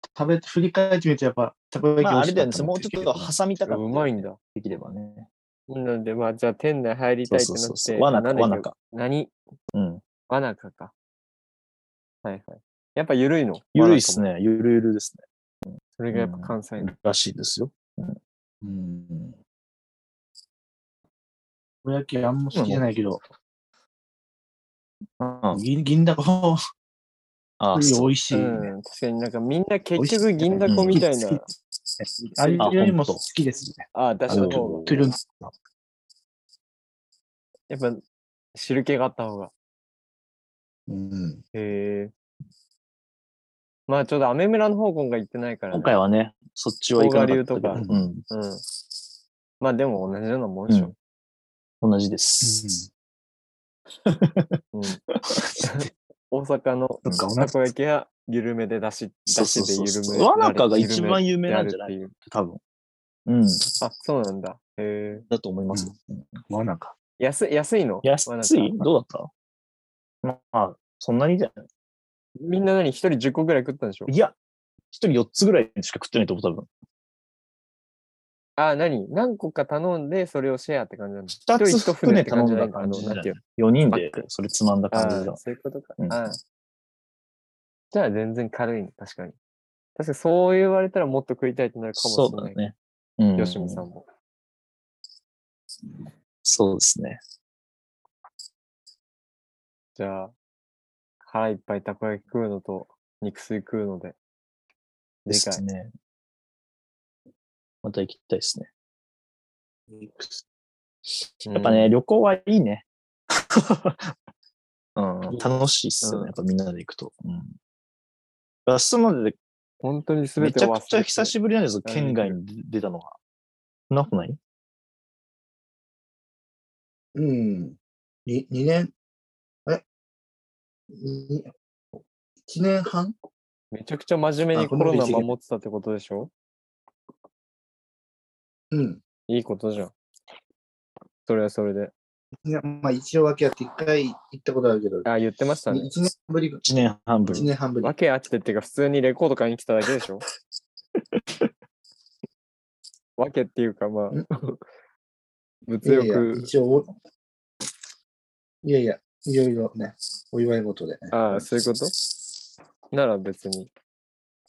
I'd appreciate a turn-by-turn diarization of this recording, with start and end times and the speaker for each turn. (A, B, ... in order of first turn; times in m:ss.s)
0:00.1-0:03.3 A
0:02.0-0:05.3 B
0:03.6-0:04.4 C
0:05.7-0:09.3 C
0:07.3-0:08.7 B
0:09.7-0:10.0 B
0:10.3-0:10.9 C
0:12.2-0:14.2 C
0:13.7-0:18.2 B
0:16.0-0:16.9 C
0:18.6-0:19.4 A
0:21.8-0:23.2 A
0:22.5-0:22.8 B
0:25.2-0:25.6 B
0:25.5-0:26.6 A
0:27.6-0:28.1 B
0:27.7-0:28.7 A
0:28.3-0:31.5 C
0:30.0-0:31.3 A
0:30.7-0:31.0 B
0:32.0-0:35.4 A
0:32.2-0:32.7 C
0:32.6-0:33.2 B
0:33.9-0:35.1 C
0:34.3-0:35.2 B
0:37.7-0:38.0 C
0:38.5-0:39.5 C
0:40.9-0:41.4 A
0:41.5-0:42.1 C
0:43.9-0:45.9 C
0:45.7-0:48.2 B
0:47.0-0:48.6 C
0:47.8-0:48.1 A
0:49.6-0:50.9 C
0:51.8-0:52.8 B
0:52.4-0:52.9 A
0:54.0-0:54.6 B
0:54.7-0:55.0 C
0:55.1-0:55.4 B
0:55.6-1:02.1 C
0:57.0-0:57.6 A
0:59.3-1:02.6 B
1:03.2-1:03.7 B
1:03.8-1:05.2 C
1:05.3-1:06.4 B
1:06.5-1:06.9 A
1:07.2-1:08.8 C
1:08.0-1:09.3 B
1:10.2-1:11.6 B
1:12.4-1:14.1 C
1:14.1-1:14.3 B
1:14.9-1:16.7 B
1:18.6-1:24.2 C
1:21.3-1:25.4 B
1:24.9-1:26.4 C
1:27.9-1:29.4 C
1:30.0-1:32.6 C
1:32.0-1:33.8 B
1:33.4-1:34.0 C
1:36.4-1:37.2 B
1:40.0-1:40.3 C
1:41.2-1:44.2 C
1:45.3-1:45.9 B
1:45.3-1:45.6 C
1:47.8-1:48.7 B
1:49.9-1:50.4 A
1:51.4-1:54.1 B
1:51.4-1:51.9 C
1:55.0-1:57.6 B
1:56.0-1:56.3 C
1:58.7-1:59.4 B
1:59.8-2:01.3 C
2:00.4-2:03.2 B
2:01.8-2:02.4 C
2:03.9-2:04.4 B
2:07.1-2:08.9 A
2:10.9-2:11.5 A
2:12.5-2:13.1 A
2:13.7-2:16.3 C
2:14.5-2:15.3 A
2:18.7-2:19.0 A
2:19.3-2:19.9 C
2:21.2-2:21.9 C
2:22.4-2:25.1 A
2:25.0-2:25.9 C
2:25.7-2:26.6 A
2:26.6-2:27.5 B
2:27.2-2:30.2 C
2:27.3-2:27.9 A
2:31.0-2:31.5 B
2:33.2-2:34.6 C
2:35.7-2:36.5 C
2:35.8-2:36.9 A
2:38.6-2:41.5 A
2:41.1-2:41.9 C
2:42.9-2:43.7 C